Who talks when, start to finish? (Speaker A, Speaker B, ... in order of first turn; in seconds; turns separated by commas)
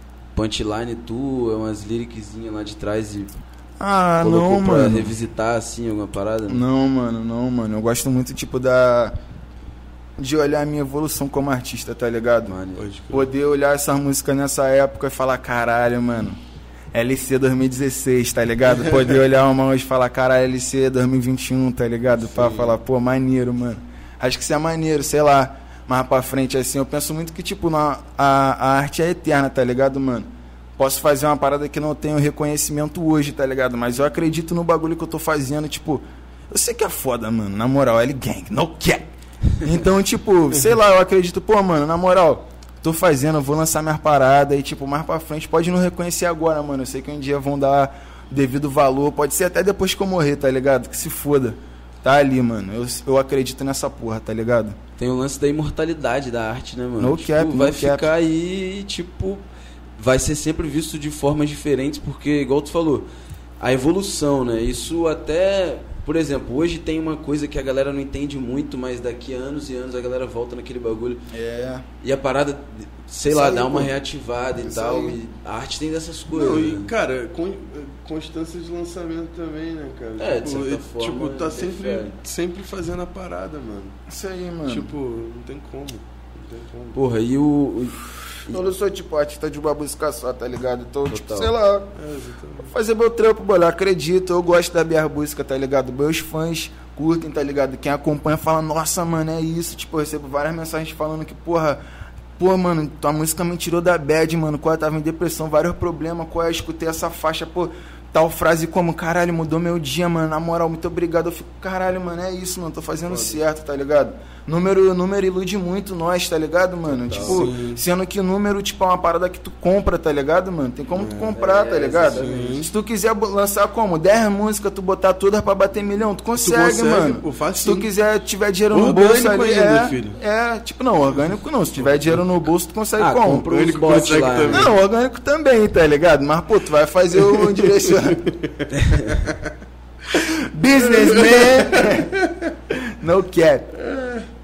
Speaker A: 0.3-3.3, Speaker B: 3.8-5.1, Speaker A: 4.2-6.6, Speaker B: 6.5-9.1, Speaker B: 10.2-12.5, Speaker A: 12.4-12.9, Speaker C: 12.8-13.3, Speaker B: 13.1-16.4, Speaker B: 16.9-39.1, Speaker C: 22.3-22.7, Speaker B: 39.6-54.8, Speaker A: 55.0-59.4, Speaker B: 57.0-58.1, Speaker A: 60.0-63.1, Speaker A: 63.6-71.2, Speaker B: 71.3-71.8, Speaker A: 72.0-76.9, Speaker C: 73.3-73.9, Speaker C: 74.6-75.1, Speaker C: 76.3-84.0, Speaker A: 80.2-82.1, Speaker B: 84.1-84.9, Speaker C: 84.6-87.0, Speaker A: 86.9-88.5, Speaker B: 88.5-91.9, Speaker A: 91.1-91.5, Speaker C: 92.0-92.7, Speaker B: 92.7-101.8, Speaker B: 102.4-133.5, Speaker C: 113.0-113.4, Speaker A: 116.9-117.5, Speaker C: 117.2-117.8, Speaker C: 121.0-121.3, Speaker A: 121.0-122.6, Speaker C: 122.1-122.7, Speaker C: 126.4-127.9, Speaker C: 128.7-130.2, Speaker C: 131.8-132.2, Speaker A: 133.0-134.7, Speaker C: 133.5-134.7, Speaker B: 134.5-138.3, Speaker C: 137.2-139.5, Speaker A: 138.7-139.2, Speaker B: 140.1-142.1, Speaker C: 140.8-142.5, Speaker B: 142.7-143.7, Speaker C: 143.8-144.2